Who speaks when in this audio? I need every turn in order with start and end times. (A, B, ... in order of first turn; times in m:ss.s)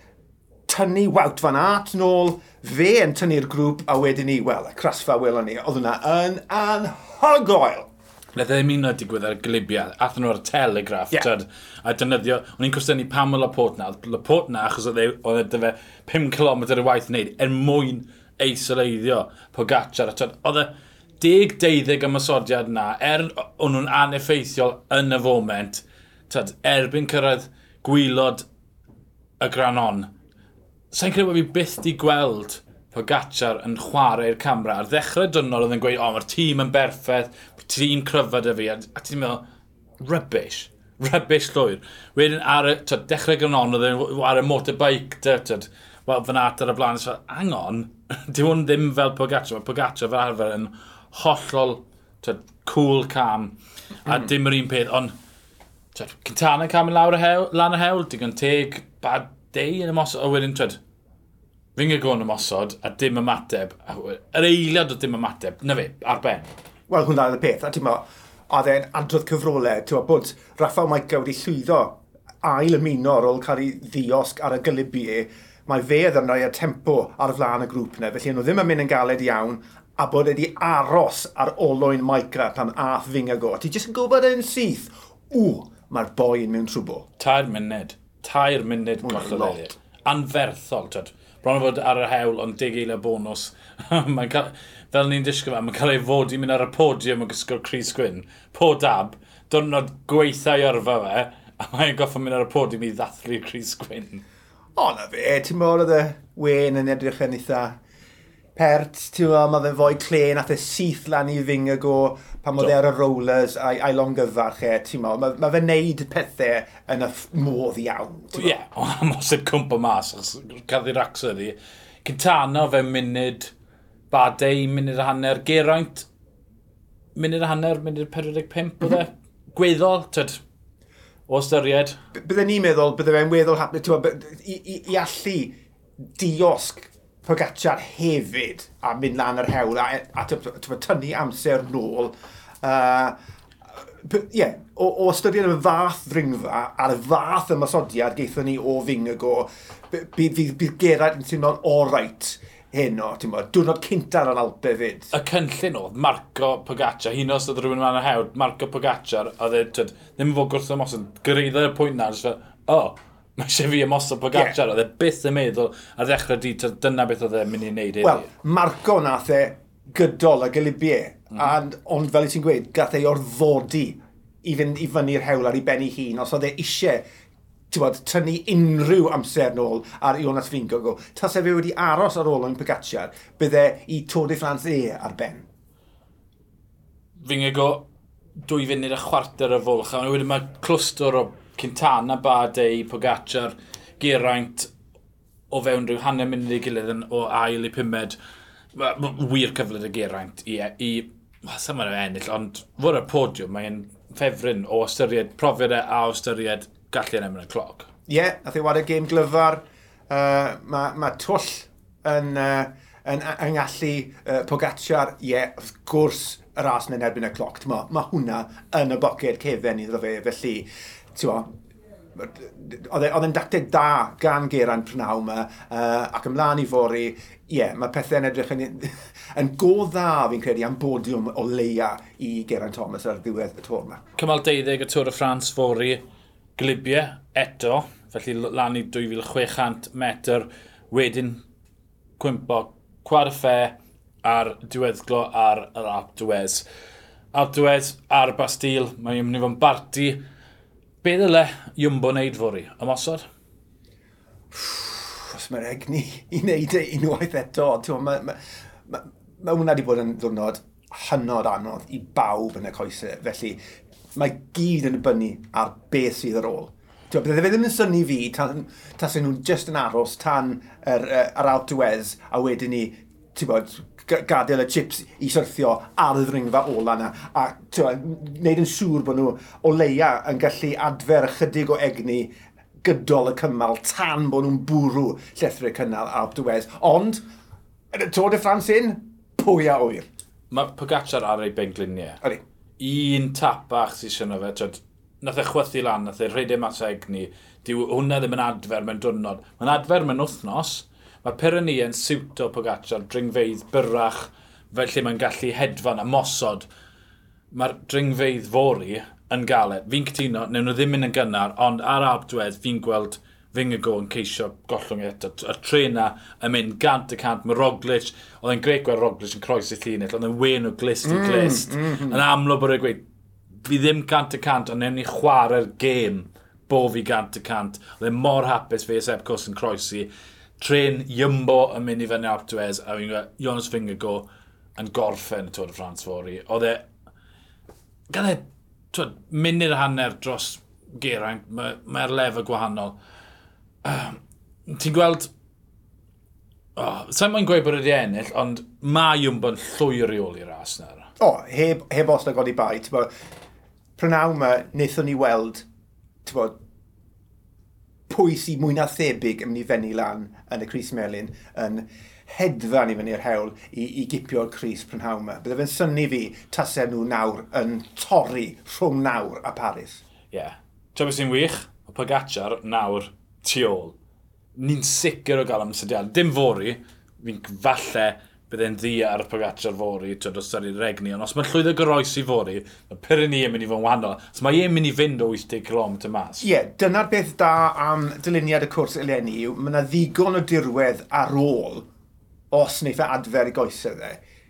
0:00.7-0:07.9 A
0:08.4-0:28.4 B
0:29.4-0:30.1 B
0:30.9-0:39.4 B
0:40.0-0:55.1 B
0:55.9-1:00.8 B
1:01.8-1:06.5 B
1:06.9-1:27.1 A
1:27.2-1:44.2 B
1:29.0-1:29.6 A
1:44.8-1:47.8 A
1:48.6-1:58.6 A
1:58.3-2:03.5 B
2:04.1-2:06.1 B
2:07.2-2:10.4 B
2:11.3-2:12.0 B
2:12.2-2:15.6 A
2:16.2-2:23.1 A
2:24.0-2:35.1 A
2:35.1-2:48.3 B
2:48.0-2:57.0 A
2:57.7-3:05.5 A
3:07.2-3:07.9 B
3:08.4-3:14.7 B
3:15.5-3:18.2 B
3:18.8-3:27.9 B
3:28.1-3:41.5 A
3:42.2-3:54.0 A
3:54.2-3:56.0 B
3:56.6-4:01.4 B
4:02.2-4:06.6 B
4:07.3-4:10.2 B
4:11.0-4:13.2 B
4:14.5-4:23.6 A
4:24.2-4:42.3 A
4:42.8-4:47.2 A
4:47.9-4:50.1 A
4:50.5-4:52.2 B
4:52.8-5:06.7 B
5:07.5-5:23.0 B
5:21.0-5:22.2 A
5:23.6-5:36.9 B
5:38.1-5:43.0 B
5:43.8-5:45.3 B
5:46.8-5:51.1 B
5:51.2-5:53.1 A
5:54.0-5:55.6 A
5:56.2-5:56.6 A
5:58.1-6:10.0 A
6:10.3-6:14.0 B
6:14.6-6:26.5 B
6:26.4-6:31.9 A
6:32.5-6:34.2 A